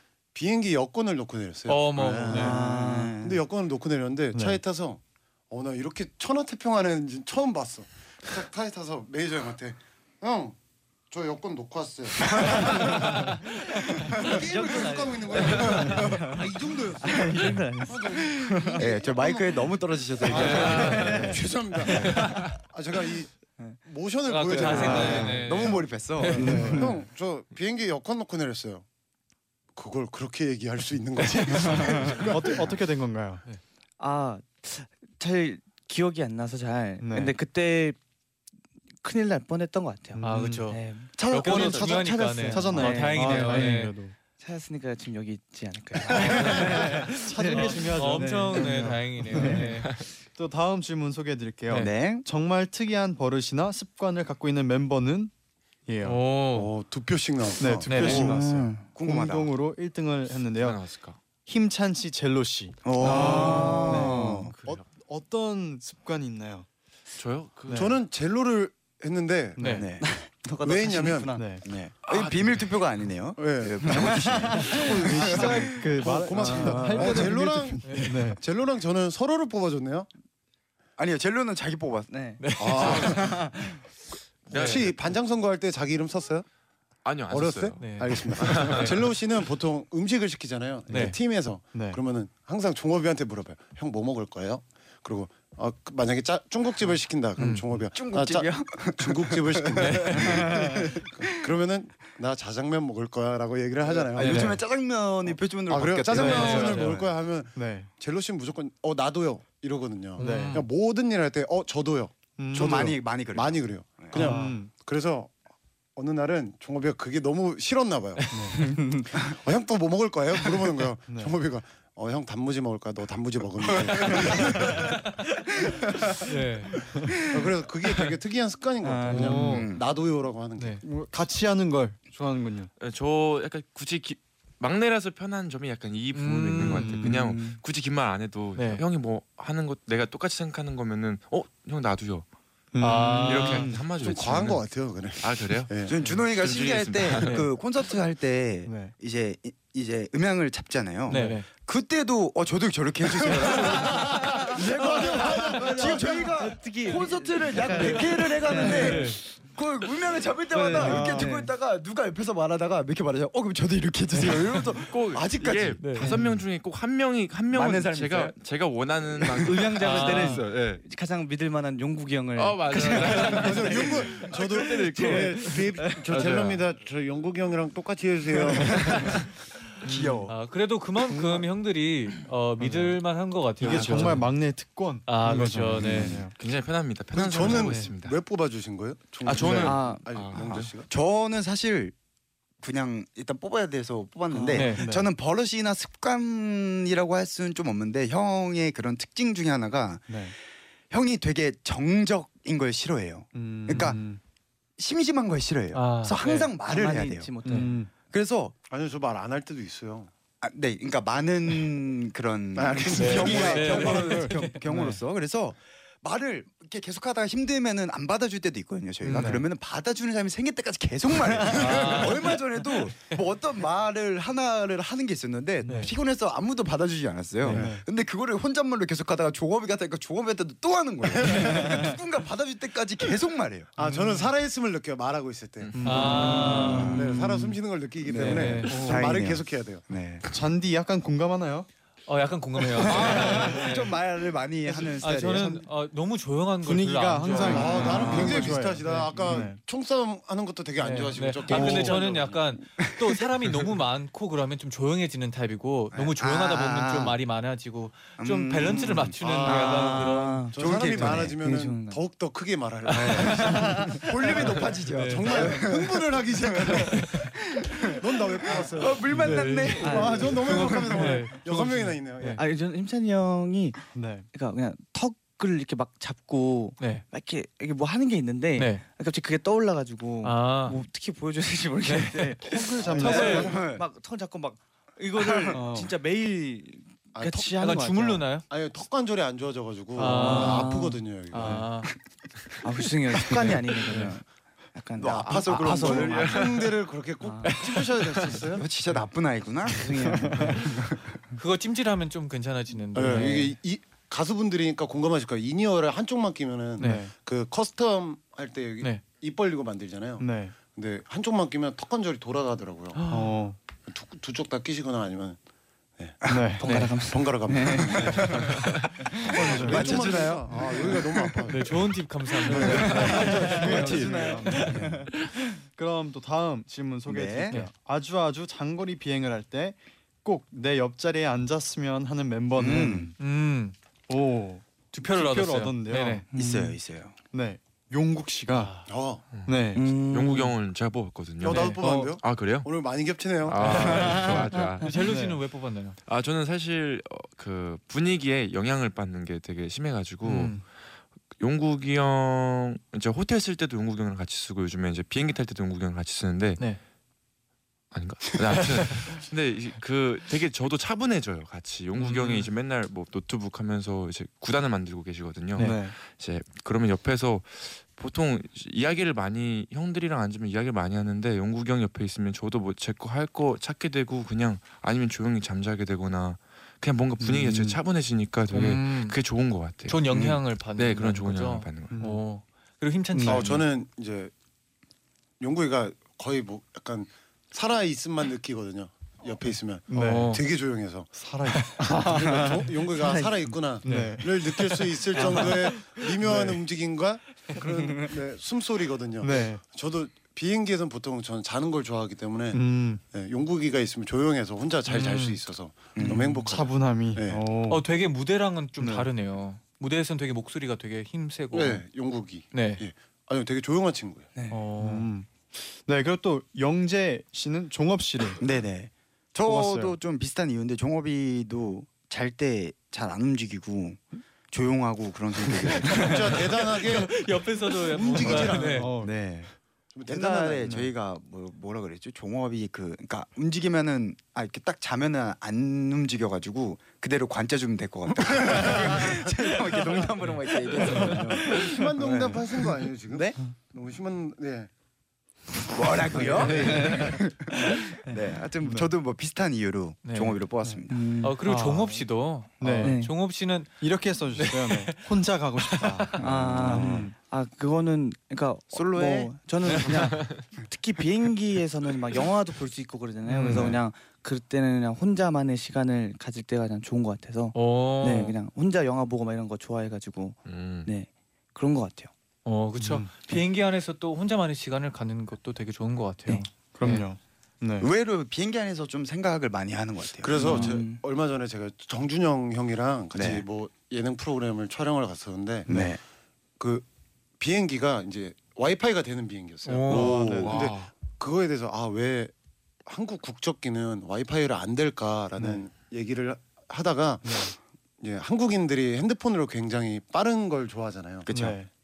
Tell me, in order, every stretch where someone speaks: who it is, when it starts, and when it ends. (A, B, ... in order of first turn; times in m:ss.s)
0:00.3-0:02.6 A
0:01.7-0:02.7 B
0:02.3-0:03.4 C
0:02.4-0:03.2 D
0:03.2-0:10.6 A
0:04.3-0:04.6 E
0:11.1-0:28.8 A
0:14.2-0:18.9 D
0:18.7-0:22.4 C
0:20.4-0:21.4 D
0:20.5-0:21.1 F
0:24.3-0:26.6 B
0:24.5-0:26.8 C
0:24.7-0:25.4 E
0:26.4-0:27.0 E
0:26.6-0:27.0 D
0:29.8-0:32.7 A
0:31.7-0:32.1 D
0:32.2-0:33.5 E
0:34.0-0:38.0 D
0:37.0-0:37.3 E
0:39.0-0:43.7 D
0:40.2-0:40.7 E
0:40.2-0:44.0 B
0:41.2-0:42.1 C
0:42.4-0:44.1 E
0:44.4-0:49.8 D
0:46.1-0:49.9 B
0:46.2-0:55.3 E
0:51.7-0:52.3 C
0:55.9-0:56.2 E
0:56.0-0:56.7 B
0:56.5-0:58.3 A
0:57.6-1:00.8 E
0:57.9-0:58.3 B
0:58.1-0:58.3 C
0:58.1-0:58.9 D
0:59.0-0:59.5 C
1:00.6-1:01.2 F
1:01.5-1:06.7 E
1:02.8-1:04.5 C
1:03.0-1:04.5 D
1:04.6-1:04.8 F
1:07.2-1:07.9 F
1:07.7-1:08.0 E
1:07.7-1:09.9 A
1:09.6-1:09.9 E
1:09.6-1:09.9 B
1:09.8-1:10.1 C
1:10.0-1:11.6 D
1:10.6-1:11.3 A
1:11.4-1:11.6 E
1:11.6-1:15.8 C
1:12.1-1:12.6 A
1:13.4-1:20.1 A
1:13.9-1:14.8 D
1:14.8-1:18.4 E
1:16.4-1:17.3 C
1:16.6-1:17.2 D
1:17.8-1:18.3 B
1:21.0-1:22.1 C
1:22.1-1:22.4 D
1:22.4-1:23.2 B
1:22.6-1:23.4 A
1:22.6-1:23.3 C
1:23.1-1:23.8 D
1:24.5-1:25.0 F
1:24.5-1:26.5 A
1:24.5-1:24.9 B
1:27.0-1:28.9 F
1:27.3-1:44.6 A
1:27.8-1:29.1 B
1:30.9-1:31.2 E
1:30.9-1:31.2 B
1:31.7-1:32.0 E
1:37.4-1:37.7 B
1:37.9-1:41.3 C
1:39.8-1:40.7 B
1:43.8-1:47.2 C
1:44.2-1:44.6 E
1:45.2-1:55.4 A
1:46.1-1:46.7 E
1:46.3-1:46.9 B
1:47.6-1:47.9 E
1:50.2-1:50.7 B
1:50.2-1:50.7 E
1:52.4-1:52.9 E
1:52.5-1:54.2 C
1:54.2-1:54.7 E
1:54.2-1:54.5 B
1:56.0-1:58.3 A
1:58.3-1:58.6 E
1:58.5-1:59.4 D
1:59.2-2:04.9 A
2:01.1-2:01.3 E
2:03.7-2:04.5 C
2:06.2-2:06.7 B
2:07.2-2:10.8 A
2:08.8-2:09.3 D
2:09.1-2:09.7 E
2:09.1-2:09.7 B
2:09.5-2:09.8 C
2:10.6-2:10.8 B
2:10.8-2:12.7 E
2:12.8-2:22.3 F
2:16.1-2:17.1 B
2:16.6-2:17.2 E
2:17.1-2:17.6 D
2:18.6-2:18.8 B
2:22.7-2:23.8 E
2:22.8-2:23.8 B
2:23.2-2:24.7 F
2:24.0-2:26.0 A
2:25.2-2:25.7 F
2:25.9-2:45.2 C
2:26.3-2:27.4 F
2:28.7-2:28.9 E
2:31.1-2:31.5 B
2:33.1-2:36.3 A
2:35.0-2:39.2 D
2:38.6-2:39.2 B
2:40.5-2:41.5 D
2:40.9-2:41.2 E
2:44.9-2:50.8 F
2:45.1-2:45.8 A
2:45.8-2:46.1 B
2:47.5-2:48.4 C
2:49.2-2:49.7 C
2:49.4-2:56.2 D
2:49.8-2:50.4 B
2:52.4-2:56.6 F
2:53.1-2:59.2 A
2:59.8-3:00.4 C
3:00.3-3:04.3 B
3:03.6-3:06.3 E
3:03.6-3:04.2 F
3:05.1-3:06.3 B
3:05.8-3:06.1 C
3:06.3-3:08.2 F
3:07.1-3:10.9 A
3:07.5-3:07.9 B
3:09.2-3:10.7 F
3:09.4-3:09.7 E
3:09.6-3:10.1 D
3:10.3-3:12.0 C
3:12.6-3:20.3 C
3:14.3-3:14.7 D
3:14.5-3:14.8 B
3:14.7-3:15.1 E
3:20.1-3:20.3 E
3:20.9-3:24.0 C
3:23.3-3:24.2 E
3:24.8-3:27.4 C
3:25.7-3:26.5 B
3:26.6-3:27.8 D
3:27.4-3:27.9 E
3:28.1-3:28.5 C
3:28.7-3:30.1 A
3:30.4-3:53.8 C
3:32.6-3:34.1 A
3:32.9-3:34.9 B
3:33.2-3:35.0 E
3:39.1-3:39.4 E
3:39.1-3:39.4 B
3:41.5-3:42.4 B
3:41.6-3:42.0 A
3:45.6-3:45.9 E
3:47.4-3:47.8 E
3:51.1-3:51.9 A
3:53.8-3:59.8 A
3:53.8-3:54.1 E
3:55.8-3:56.9 E
3:55.8-3:57.1 B
3:55.9-4:00.2 C
3:58.2-3:58.9 B
3:58.6-3:59.0 E
4:00.3-4:01.7 E
4:02.1-4:04.0 B
4:02.8-4:05.7 C
4:04.9-4:09.4 B
4:06.6-4:09.6 E
4:07.4-4:12.4 A
4:10.8-4:20.5 B
4:11.5-4:12.0 E
4:12.8-4:13.6 C
4:15.9-4:17.2 C
4:18.2-4:21.4 C
4:19.2-4:27.4 A
4:19.5-4:22.0 D
4:22.9-4:31.3 C
4:23.4-4:24.0 D
4:24.2-4:25.7 B
4:26.9-4:27.3 B
4:27.9-4:29.2 A
4:29.0-4:32.4 B
4:29.8-4:30.4 D
4:29.8-4:32.4 A
4:32.4-4:48.4 D
4:33.9-4:34.3 E
4:36.8-4:37.1 B
4:38.6-4:38.9 B
4:40.2-4:40.8 B
4:41.8-4:42.4 B
4:42.5-4:43.5 E
4:42.8-4:43.6 A
4:43.0-4:43.9 C
4:43.0-4:43.6 B
4:45.2-4:45.6 C
4:45.5-4:45.9 E
4:47.1-4:47.5 A
4:47.5-4:48.5 B
4:48.5-4:51.7 A
4:50.0-4:50.7 B
4:50.0-4:51.1 D
4:50.0-4:50.5 E
4:51.3-4:51.9 B
4:52.6-4:56.6 D
4:53.8-4:54.1 B
4:55.0-4:56.5 C
4:55.6-4:58.7 A
4:57.2-4:57.6 D
4:58.5-5:01.2 C
4:59.7-5:00.9 D
5:00.1-5:00.6 E
5:01.4-5:03.5 B
5:02.9-5:13.0 A
5:03.1-5:03.5 D
5:06.8-5:07.0 B
5:06.8-5:07.1 E
5:10.2-5:10.5 E
5:13.1-5:13.6 E
5:13.9-5:15.4 A
5:16.2-5:16.6 C
5:16.3-5:16.6 E
5:16.6-5:18.6 D
5:16.6-5:16.9 B
5:17.1-5:18.6 A
5:18.0-5:18.5 C
5:19.2-5:23.3 A
5:19.2-5:21.2 C
5:19.3-5:20.0 E
5:21.5-5:24.9 B
5:22.5-5:25.1 C
5:22.6-5:25.0 E
5:25.7-5:33.2 E
5:27.1-5:27.6 C
5:32.6-5:33.1 C
5:33.2-5:33.8 B
5:34.1-5:36.2 E
5:34.9-5:36.3 B
5:36.3-5:36.8 D
5:36.3-5:37.2 C
5:37.3-5:38.7 E
5:38.5-5:38.9 B
5:38.9-5:39.2 A
5:39.3-5:42.7 F
5:39.5-5:39.8 E
5:39.7-5:40.6 D
5:41.4-5:44.2 A
5:41.4-5:42.1 B
5:43.4-5:44.9 F
5:43.6-5:46.0 B
5:45.0-5:45.4 E
5:46.1-5:50.7 F
5:50.2-5:50.6 B
5:51.4-5:56.6 F
5:57.9-6:22.0 F
5:58.6-5:59.2 B
6:02.0-6:02.5 B
6:05.6-6:06.0 E
6:17.2-6:17.6 E
6:18.5-6:19.2 B
6:19.9-6:23.7 B
6:21.9-6:22.2 E
6:23.1-6:23.4 E
6:23.2-6:24.3 A
6:25.4-6:47.4 A
6:29.9-6:30.4 E
6:29.9-6:30.4 B
6:31.2-6:32.6 E
6:32.9-6:33.5 D
6:33.8-6:34.3 E
6:33.9-6:34.1 B
6:35.2-6:36.0 D
6:35.2-6:35.5 B
6:36.2-6:36.6 E
6:37.9-6:38.1 D
6:39.2-6:39.6 E
6:42.5-6:43.0 E
6:44.9-6:45.4 B
6:46.0-6:46.5 C
6:46.5-6:47.8 E
6:47.6-6:51.8 B
6:48.8-6:49.1 E
6:51.5-6:54.3 A
6:52.5-6:52.8 B
6:54.5-6:55.1 B
6:54.8-6:58.4 E
6:58.4-7:06.3 C
6:59.4-7:00.0 E
7:05.8-7:08.9 B
7:06.0-7:08.9 A
7:08.2-7:09.2 E
7:09.0-7:09.5 C
7:09.9-7:10.8 A
7:10.0-7:23.4 C
7:10.6-7:10.9 E
7:18.3-7:19.2 A
7:21.0-7:24.7 A
7:25.7-7:31.1 C
7:26.2-7:26.5 A
7:26.2-7:27.2 E
7:28.6-7:28.9 E
7:30.0-7:30.5 B
7:30.9-7:31.5 D
7:31.2-7:36.3 B
7:31.4-7:32.0 E
7:32.6-7:33.0 E
7:32.8-7:33.1 D
7:33.8-7:37.1 E
7:36.2-7:37.1 C
7:36.2-7:52.1 D
7:38.7-7:39.4 C
7:43.3-7:43.8 E
7:43.3-7:43.8 B
7:47.5-7:48.4 B
7:50.5-7:50.9 F
7:52.4-7:57.1 B
7:52.8-7:53.1 E
7:56.7-7:57.9 E
7:57.8-8:00.6 C
8:00.2-8:05.8 A
8:00.4-8:01.0 D
8:00.4-8:00.7 E
8:03.1-8:03.5 C
8:05.7-8:06.0 C
8:06.6-8:06.9 A
8:07.4-8:12.3 A
8:09.6-8:10.4 B
8:09.9-8:10.6 E
8:10.3-8:10.9 F
8:12.9-8:21.6 A
8:15.4-8:15.6 E
8:17.2-8:17.5 E
8:21.3-8:21.7 E